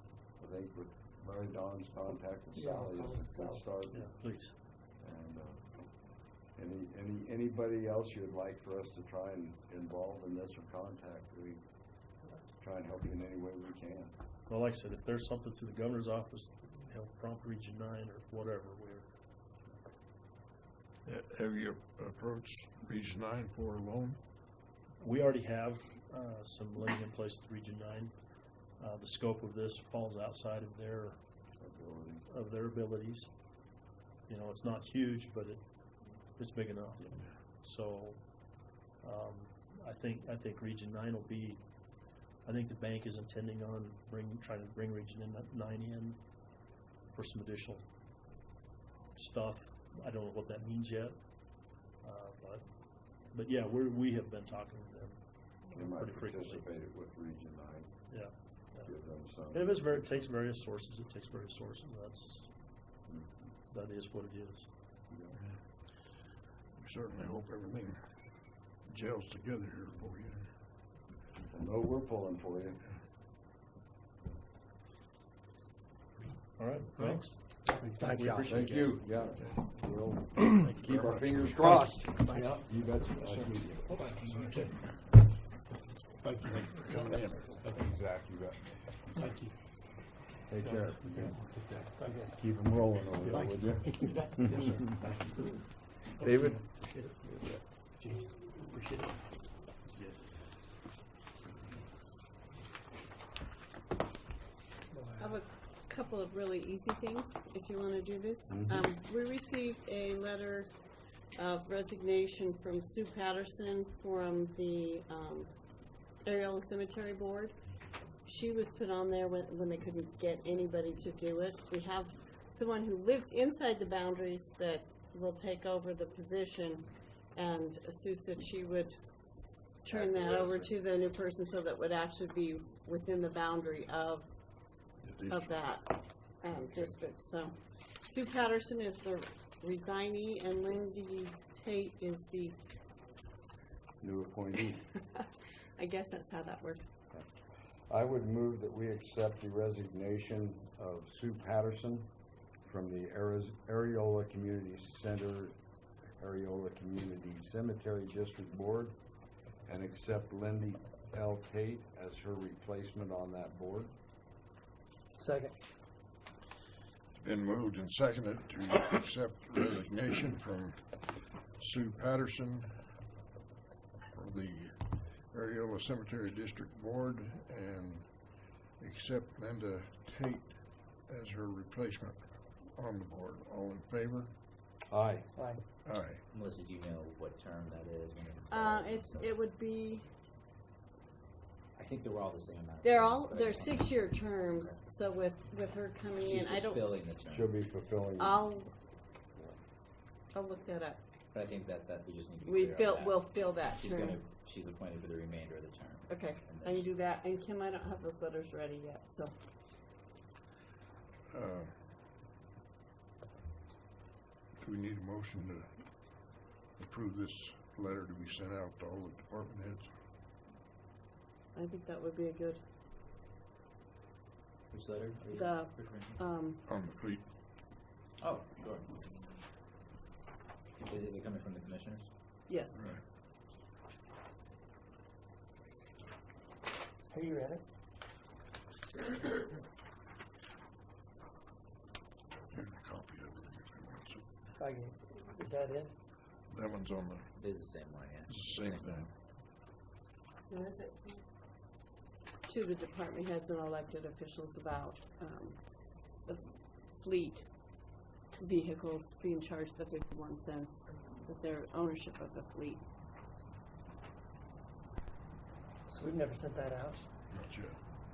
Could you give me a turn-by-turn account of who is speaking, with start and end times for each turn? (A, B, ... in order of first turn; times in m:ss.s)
0:00.4-0:04.2 A
0:02.5-0:03.7 B
0:03.9-0:04.6 C
0:05.0-0:05.9 A
0:06.5-0:11.6 A
0:12.5-0:14.1 A
0:14.5-0:19.1 C
0:21.1-0:24.2 D
0:25.0-0:28.1 C
0:28.8-0:31.2 C
0:31.6-0:32.2 A
0:32.3-0:33.3 C
0:34.3-0:35.6 C
0:36.4-0:41.6 C
0:42.4-0:46.4 C
0:47.1-0:47.8 C
0:49.2-0:56.7 C
0:55.7-0:58.1 A
0:58.1-1:02.5 C
0:58.8-1:00.1 A
1:03.1-1:03.3 A
1:03.7-1:04.7 C
1:05.1-1:05.4 A
1:06.8-1:08.0 D
1:08.8-1:10.5 D
1:11.4-1:12.8 A
1:16.6-1:18.5 C
1:17.0-1:19.0 B
1:18.3-1:24.0 A
1:20.4-1:22.1 D
1:22.1-1:24.8 B
1:23.4-1:25.3 D
1:26.2-1:27.8 B
1:26.3-1:29.3 D
1:29.2-1:29.4 B
1:30.5-1:31.4 A
1:30.6-1:32.4 B
1:32.4-1:35.0 A
1:33.2-1:35.6 B
1:34.5-1:34.9 D
1:36.2-1:37.5 A
1:36.2-1:37.1 C
1:38.0-1:38.3 B
1:38.4-1:39.2 C
1:39.8-1:40.3 C
1:44.9-1:45.4 B
1:45.2-1:50.7 E
1:48.5-1:48.9 A
1:51.4-1:55.5 E
1:56.2-1:57.6 E
1:58.2-2:22.6 E
2:09.9-2:10.8 A
2:15.0-2:15.6 D
2:24.0-2:24.9 A
2:25.1-2:26.8 E
2:27.9-2:32.1 A
2:32.6-2:35.6 A
2:36.2-2:39.0 A
2:39.6-2:43.9 A
2:45.2-2:45.6 B
2:47.2-2:52.9 D
2:54.1-3:04.3 D
3:04.9-3:05.3 A
3:05.4-3:05.6 B
3:05.8-3:06.2 D
3:06.3-3:09.4 F
3:08.5-3:10.1 E
3:11.8-3:14.8 F
3:12.8-3:17.0 E
3:16.2-3:17.6 F
3:17.3-3:18.5 A
3:18.2-3:18.7 E
3:20.3-3:21.0 E
3:21.3-3:26.8 F
3:22.4-3:24.2 E
3:26.1-3:29.3 E
3:31.3-3:31.9 D
3:34.6-3:39.9 D
3:41.5-3:42.6 E
3:44.7-3:46.2 F
3:45.3-3:46.6 E
3:46.6-3:47.3 D
3:48.2-3:49.1 F
3:50.8-3:52.1 F
3:52.5-3:52.9 E
3:52.7-3:53.0 D
3:57.1-3:57.6 B
4:02.5-4:04.3 D
4:04.6-4:05.9 B
4:06.5-4:07.3 D
4:07.4-4:09.1 F
4:08.3-4:09.1 D
4:10.5-4:11.2 E
4:12.5-4:17.8 E
4:18.4-4:22.8 E
4:25.9-4:27.0 B
4:27.3-4:27.8 D